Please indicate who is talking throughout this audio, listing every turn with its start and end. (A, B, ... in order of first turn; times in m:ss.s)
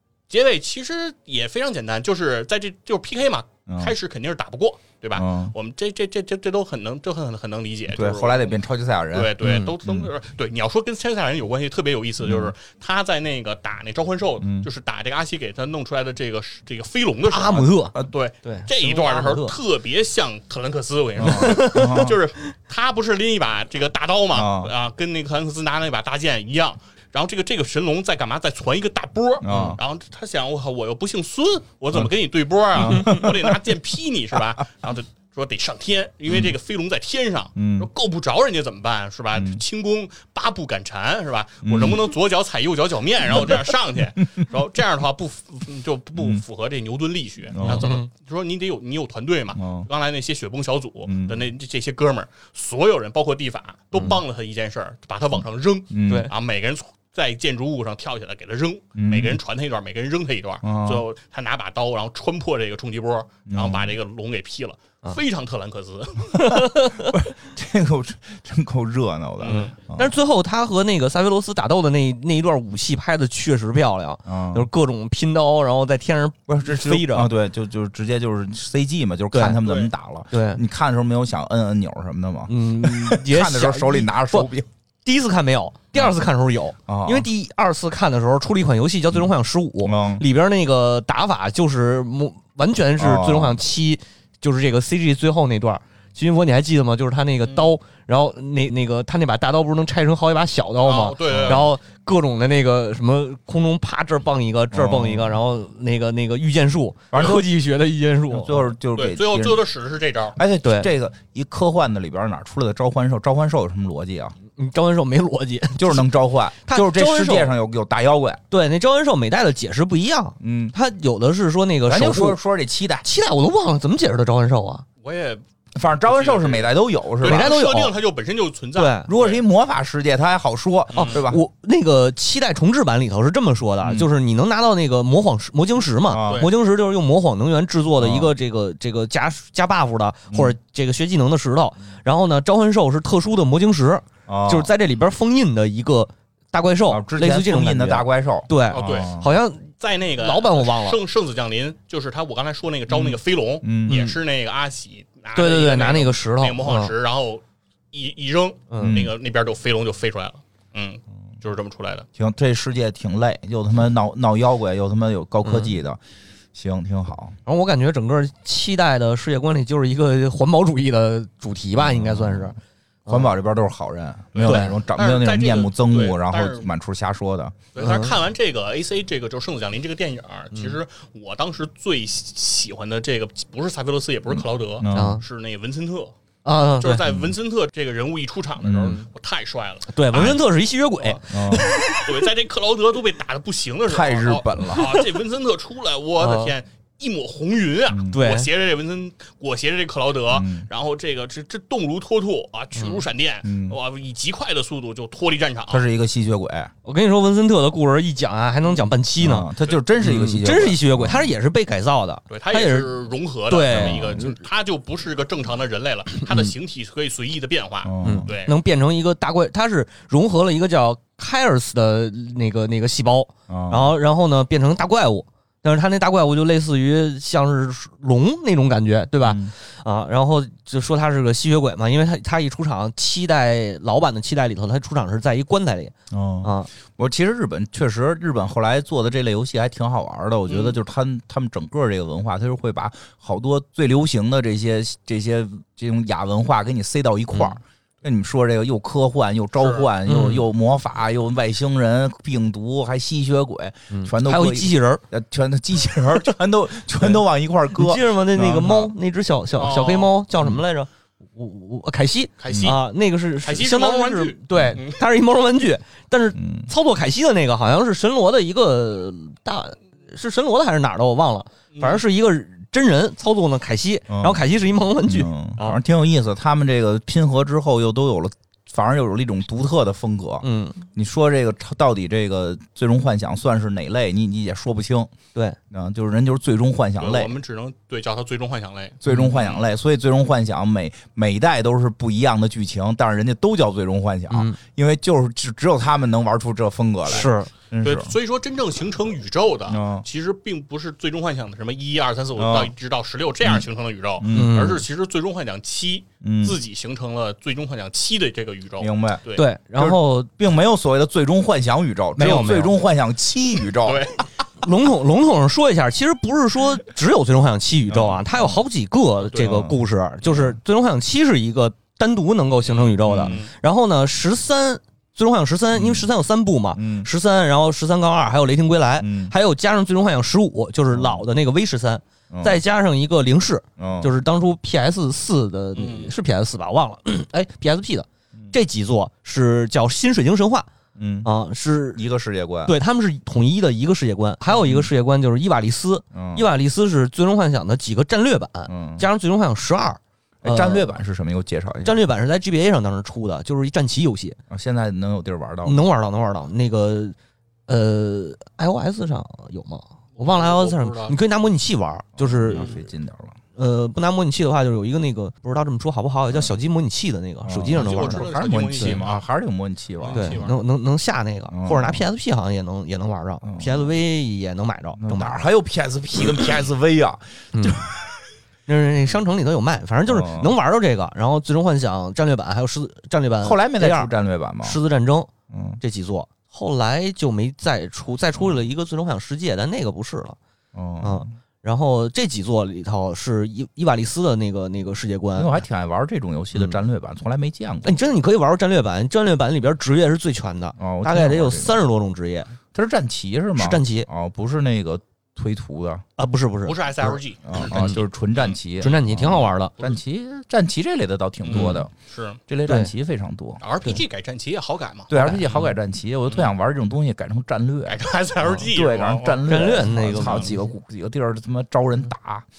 0:00.3-0:08.6 A
0:03.7-0:03.9 B
0:05.1-0:05.5 B
0:07.9-0:10.1 B
0:09.1-1:06.6 A
0:09.4-0:09.7 C
0:12.2-0:12.5 B
0:14.4-0:14.7 B
0:17.3-0:19.5 C
0:21.2-0:22.2 B
0:21.2-0:22.1 C
0:24.3-0:24.7 B
0:29.4-0:29.8 B
0:29.5-0:29.8 C
0:32.7-0:33.6 B
0:37.6-0:37.9 B
0:39.3-0:39.6 B
0:41.6-0:42.1 B
0:47.5-0:47.9 B
0:47.6-0:48.1 C
0:49.5-0:49.9 B
0:51.0-0:51.4 B
0:55.9-0:56.3 B
0:59.0-0:59.4 B
1:00.6-1:01.0 B
1:03.5-1:03.9 B
1:06.3-1:07.1 C
1:07.0-1:10.1 B
1:09.4-1:09.7 A
1:09.4-1:17.3 C
1:14.2-1:14.7 B
1:16.5-1:24.7 B
1:19.3-1:19.6 C
1:19.6-1:19.9 A
1:20.3-1:20.6 C
1:22.5-1:24.5 C
1:25.0-1:48.7 C
1:26.9-1:27.3 B
1:29.8-1:30.2 B
1:33.0-1:33.6 B
1:37.4-1:37.7 A
1:40.8-1:41.7 A
1:41.3-1:41.6 B
1:44.7-1:45.4 B
1:47.1-1:47.5 B
1:48.3-1:49.6 B
1:48.9-1:50.4 A
1:50.3-1:54.3 B
1:50.6-1:50.9 C
1:54.6-1:56.1 C
1:55.8-1:58.4 B
1:56.6-1:57.6 C
1:58.5-2:02.4 C
2:00.4-2:00.7 B
2:01.8-2:03.0 B
2:03.0-2:04.8 C
2:05.0-2:05.4 A
2:05.7-2:07.6 B
2:06.0-2:09.4 A
2:07.2-2:07.9 C
2:08.8-2:09.1 C
2:09.1-2:11.4 B
2:10.9-2:11.2 A
2:10.9-2:31.0 C
2:13.8-2:14.1 B
2:16.1-2:16.5 B
2:16.2-2:16.5 A
2:18.0-2:18.3 B
2:20.3-2:20.5 B
2:24.3-2:24.7 B
2:26.9-2:29.3 B
2:28.7-2:42.1 A
2:32.9-2:34.0 B
2:33.9-2:34.2 C
2:35.3-2:36.9 C
2:38.7-2:39.0 C
2:38.8-2:39.1 B
2:42.2-2:46.0 B
2:45.4-2:45.7 C
2:46.5-2:47.4 B
2:47.4-2:53.3 C
2:51.8-2:52.5 B
2:53.1-2:57.6 B
2:54.3-2:56.7 A
2:54.4-2:54.7 C
2:57.7-3:06.1 A
2:57.8-2:58.2 C
3:00.5-3:00.8 C
3:04.3-3:05.2 B
3:04.9-3:05.2 C
3:06.4-3:07.0 C
3:06.8-3:10.4 A
3:07.0-3:07.3 B
3:08.6-3:09.0 B
3:09.9-3:12.2 C
3:11.0-3:11.2 A
3:11.3-3:11.7 B
3:11.9-3:25.8 A
3:13.9-3:14.9 B
3:16.2-3:16.5 C
3:17.9-3:18.1 B
3:18.1-3:18.5 C
3:20.3-3:20.7 B
3:22.8-3:23.0 C
3:23.4-3:23.8 B
3:25.7-3:26.7 B
3:26.8-3:32.9 C
3:29.2-3:31.3 B
3:32.3-3:38.6 A
3:33.5-3:34.4 C
3:33.7-3:34.2 B
3:37.8-3:38.3 B
3:38.0-3:56.7 C
3:43.5-3:43.9 B
3:49.2-3:49.5 B
3:56.1-4:18.9 B
4:00.5-4:00.8 A
4:07.3-4:07.6 C
4:09.6-4:09.9 A
4:10.0-4:10.4 C
4:13.9-4:15.0 C
4:17.7-4:35.8 C
4:19.6-4:20.1 A
4:22.4-4:22.8 A
4:22.5-4:22.7 B
4:23.4-4:25.0 A
4:26.3-4:26.7 B
4:31.7-4:32.0 A
4:34.1-4:34.4 B
4:35.0-4:45.1 B
4:40.4-4:40.8 C
4:45.7-4:47.3 B
4:47.0-4:49.6 A
4:49.0-4:58.1 B
4:54.3-4:54.6 C
4:57.1-4:57.5 C
4:57.8-5:09.5 A
4:59.7-5:00.0 B
5:02.4-5:02.7 B
5:04.2-5:04.8 B
5:04.3-5:04.8 C
5:06.2-5:06.6 B
5:08.8-5:09.2 B
5:09.3-5:10.3 C
5:09.8-5:14.1 B
5:12.2-5:12.7 C
5:12.2-5:12.6 A
5:13.8-5:14.4 A
5:14.6-5:40.7 C
5:17.9-5:18.6 B
5:19.4-5:20.6 B
5:23.0-5:23.4 B
5:23.2-5:23.5 A
5:25.7-5:26.1 B
5:26.7-5:27.1 B
5:29.0-5:29.3 B
5:30.9-5:31.2 B
5:32.3-5:32.6 B
5:33.8-5:34.1 B
5:35.7-5:36.1 A
5:41.0-5:41.3 B
5:41.2-5:42.0 C
5:41.9-5:42.7 B
5:42.6-5:51.0 C
5:44.5-5:44.9 B
5:46.1-5:46.4 B
5:48.7-5:49.0 B
5:50.4-5:52.0 B
5:51.8-5:54.4 C
5:54.5-5:55.8 B
5:55.6-5:57.2 C
5:57.7-6:02.7 C
6:00.2-6:01.2 A
6:02.2-6:03.4 B
6:02.5-6:02.8 A
6:03.5-6:09.0 C
6:07.4-6:10.5 B
6:07.7-6:09.2 A
6:10.0-6:10.6 A
6:10.1-6:15.4 C
6:11.5-6:12.0 B
6:13.4-6:13.9 B
6:15.0-6:18.2 B
6:17.5-6:17.9 C
6:18.7-6:24.1 C
6:20.0-6:20.5 B
6:23.4-6:24.8 B
6:24.6-6:30.4 C
6:25.5-6:25.8 B
6:30.7-6:31.3 B
6:31.0-6:35.6 C
6:35.4-6:38.0 B
6:37.8-6:42.5 C
6:40.8-6:41.8 B
6:42.7-6:46.0 B
6:43.6-6:44.1 C
6:46.2-6:48.0 C
6:46.6-6:48.6 A
6:47.4-6:51.9 B
6:48.8-6:49.7 C
6:51.4-6:52.4 A
6:51.5-6:51.8 C
6:52.5-6:53.6 B
6:53.6-6:55.6 A
6:55.1-6:58.0 B
6:55.1-6:55.7 C
6:57.8-6:59.6 A
6:58.6-7:02.5 B
6:59.4-7:00.7 C
7:00.2-7:00.4 A